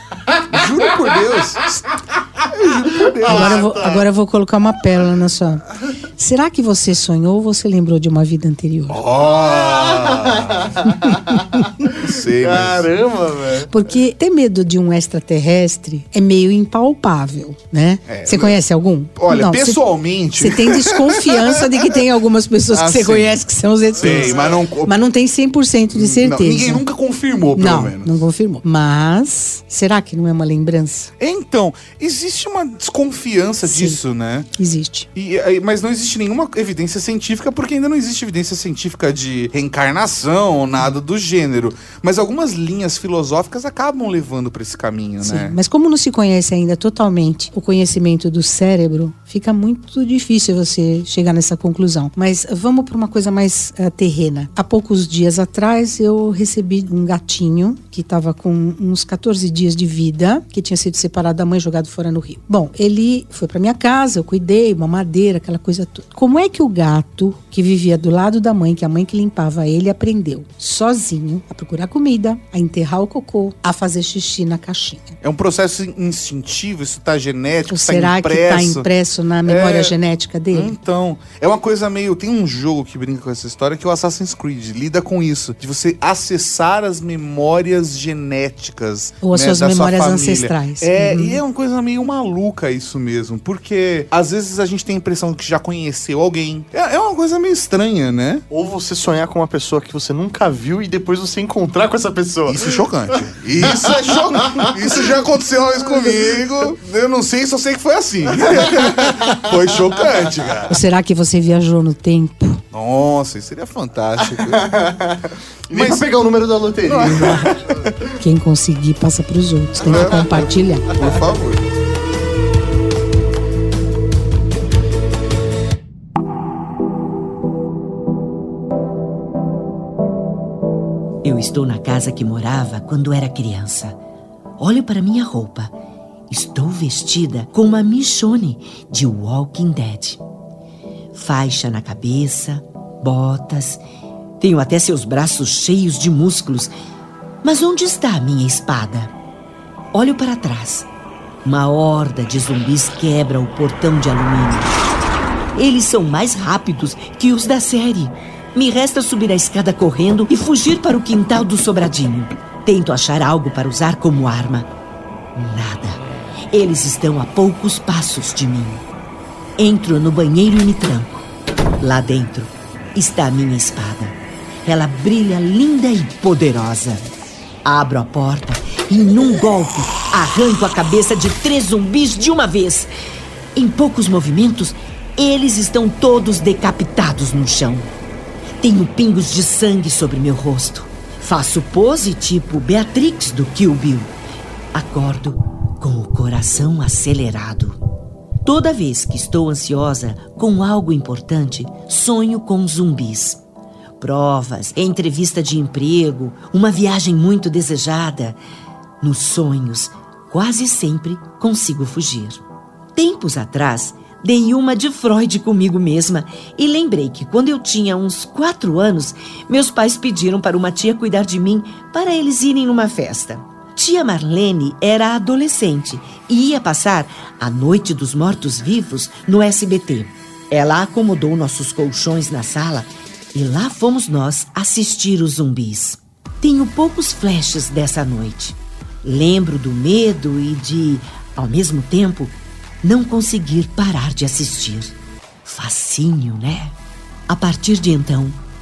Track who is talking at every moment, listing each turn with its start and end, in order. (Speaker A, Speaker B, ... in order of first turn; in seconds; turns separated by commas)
Speaker A: 0.5-1.9, Speaker A: 2.4-3.7, Speaker B: 3.2-4.0, Speaker C: 3.3-9.0, Speaker A: 8.9-10.9, Speaker B: 9.3-13.9, Speaker A: 12.0-12.9, Speaker C: 13.7-19.8, Speaker A: 18.1-18.6, Speaker A: 19.2-21.5, Speaker C: 20.4-26.8, Speaker A: 22.7-23.3, Speaker A: 24.0-24.9, Speaker A: 25.9-28.2, Speaker C: 27.6-31.1, Speaker A: 31.2-34.5, Speaker C: 33.6-34.0, Speaker C: 34.6-35.1, Speaker A: 35.1-45.6, Speaker C: 45.2-75.2, Speaker A: 75.2-78.9, Speaker C: 77.7-80.7, Speaker A: 79.5-80.0, Speaker A: 80.5-98.4, Speaker C: 89.2-91.4, Speaker B: 98.5-104.8, Speaker A: 102.5-110.8, Speaker B: 108.7-109.3, Speaker C: 110.7-112.6, Speaker A: 112.7-114.8, Speaker B: 114.2-117.9, Speaker A: 115.7-116.1, Speaker A: 116.8-117.9, Speaker C: 117.0-117.6, Speaker C: 118.2-120.9, Speaker A: 119.8-121.6, Speaker D: 131.2-134.0, Speaker D: 134.6-135.7, Speaker D: 136.3-140.2, Speaker D: 141.1-143.8, Speaker D: 144.4-146.7, Speaker D: 147.4-149.1, Speaker D: 149.9-150.9, Speaker D: 151.4-154.8, Speaker D: 155.6-164.7, Speaker D: 165.3-166.0, Speaker D: 166.5-168.8, Speaker D: 169.6-171.2, Speaker D: 171.8-177.1, Speaker D: 177.7-182.9, Speaker D: 183.6-187.9, Speaker D: 188.6-194.1, Speaker D: 194.7-197.8, Speaker D: 198.4-203.4, Speaker D: 204.0-208.4, Speaker D: 209.0-212.4, Speaker D: 213.0-244.9, Speaker D: 245.4-246.7, Speaker D: 247.3-248.4